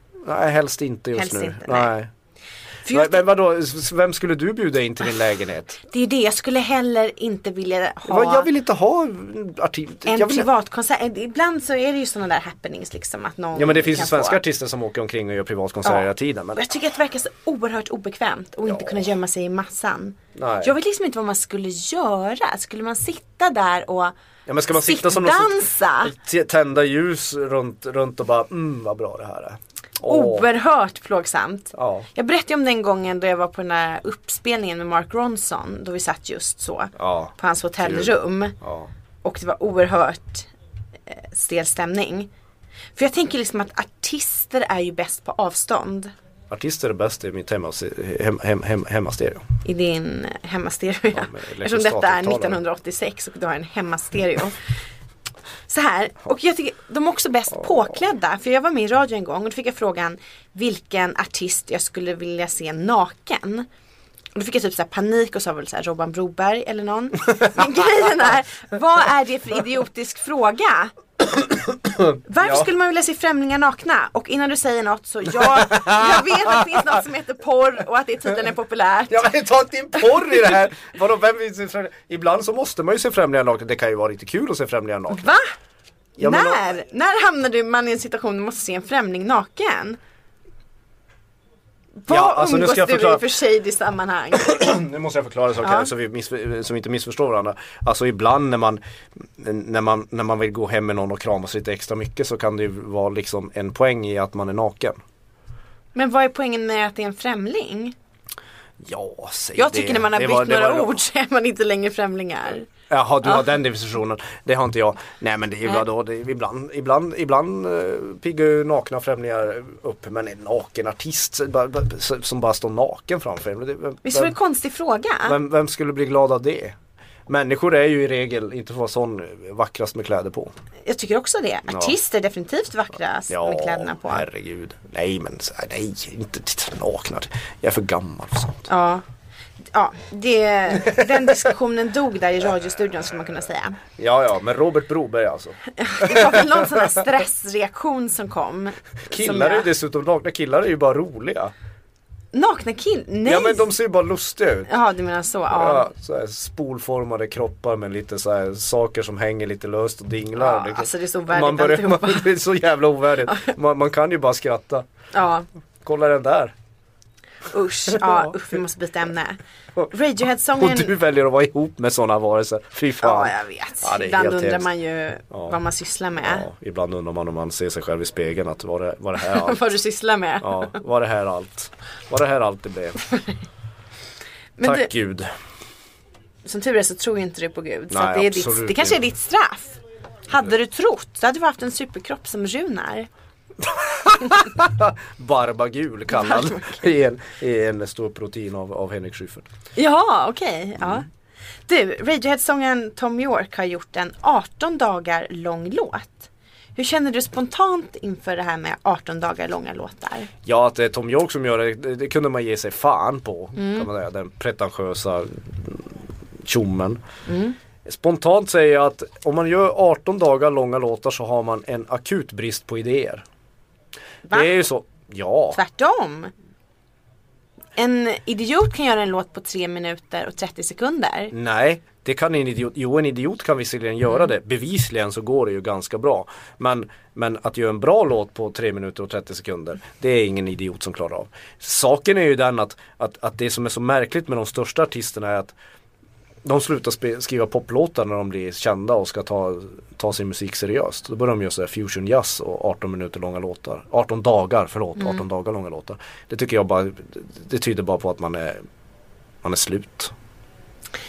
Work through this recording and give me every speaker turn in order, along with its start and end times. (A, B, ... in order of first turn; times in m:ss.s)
0:00.2-0:02.1 A
0:01.1-0:01.9 B
0:02.8-0:03.2 B
0:02.9-0:05.8 A
0:05.8-0:08.5 B
0:08.0-0:10.5 A
0:10.0-0:14.4 B
0:13.6-0:16.6 A
0:15.8-0:24.1 B
0:18.6-0:18.9 A
0:20.4-0:20.7 A
0:24.4-0:30.4 A
0:24.7-0:26.1 B
0:30.0-0:38.6 B
0:31.7-0:32.1 A
0:37.0-0:38.9 A
0:39.2-0:40.5 B
0:41.1-0:42.3 B
0:43.0-0:46.1 B
0:46.5-0:49.4 A
0:49.6-0:54.6 B
0:51.1-0:52.6 A
0:55.7-1:03.7 B
1:04.4-1:10.9 B
1:11.2-1:12.7 A
1:12.3-1:19.3 B
1:15.3-1:16.8 A
1:19.1-1:25.3 A
1:25.1-1:25.5 B
1:26.2-1:26.7 A
1:26.2-1:30.0 B
1:32.0-1:34.6 B
1:32.1-1:33.3 A
1:34.4-1:45.0 A
1:35.6-1:35.9 B
1:46.0-1:48.0 B
1:48.8-1:51.0 A
1:49.6-1:52.7 B
1:52.9-2:04.4 A
2:04.0-2:05.4 B
2:05.3-2:06.8 A
2:07.3-2:10.5 A
2:10.8-2:14.3 B
2:11.7-2:12.0 A
2:13.3-2:18.7 A
2:18.7-2:19.0 B
2:19.7-2:23.8 B
2:20.8-2:21.1 A
2:24.0-2:27.0 A
2:25.8-2:29.7 B
2:29.0-2:31.5 A
2:32.3-2:33.7 B
2:33.2-2:34.7 A
2:34.7-2:35.9 B
2:35.5-2:44.9 A
2:40.4-2:42.3 B
2:43.3-2:43.5 B
2:45.1-2:45.4 B
2:45.8-2:46.5 A
2:47.5-2:50.9 B
2:47.9-2:48.3 A
2:50.6-2:54.7 A
2:53.0-2:56.5 B
2:55.3-2:55.6 A
2:56.2-2:59.7 A
2:59.2-3:00.8 B
3:00.4-3:03.0 A
3:04.6-3:04.9 B
3:04.6-3:05.3 A
3:06.4-3:13.1 B
3:07.9-3:09.0 A
3:13.6-3:19.5 A
3:16.1-3:16.8 B
3:19.8-3:21.1 B
3:21.7-3:30.3 B
3:30.4-3:37.0 A
3:33.6-3:33.9 B
3:37.3-3:37.6 B
3:37.8-3:43.2 A
3:44.3-3:44.5 B
3:44.3-3:45.6 A
3:45.5-3:46.3 B
3:47.8-3:51.3 B
3:51.3-4:05.6 A
4:06.4-4:18.6 A
4:19.4-4:20.1 A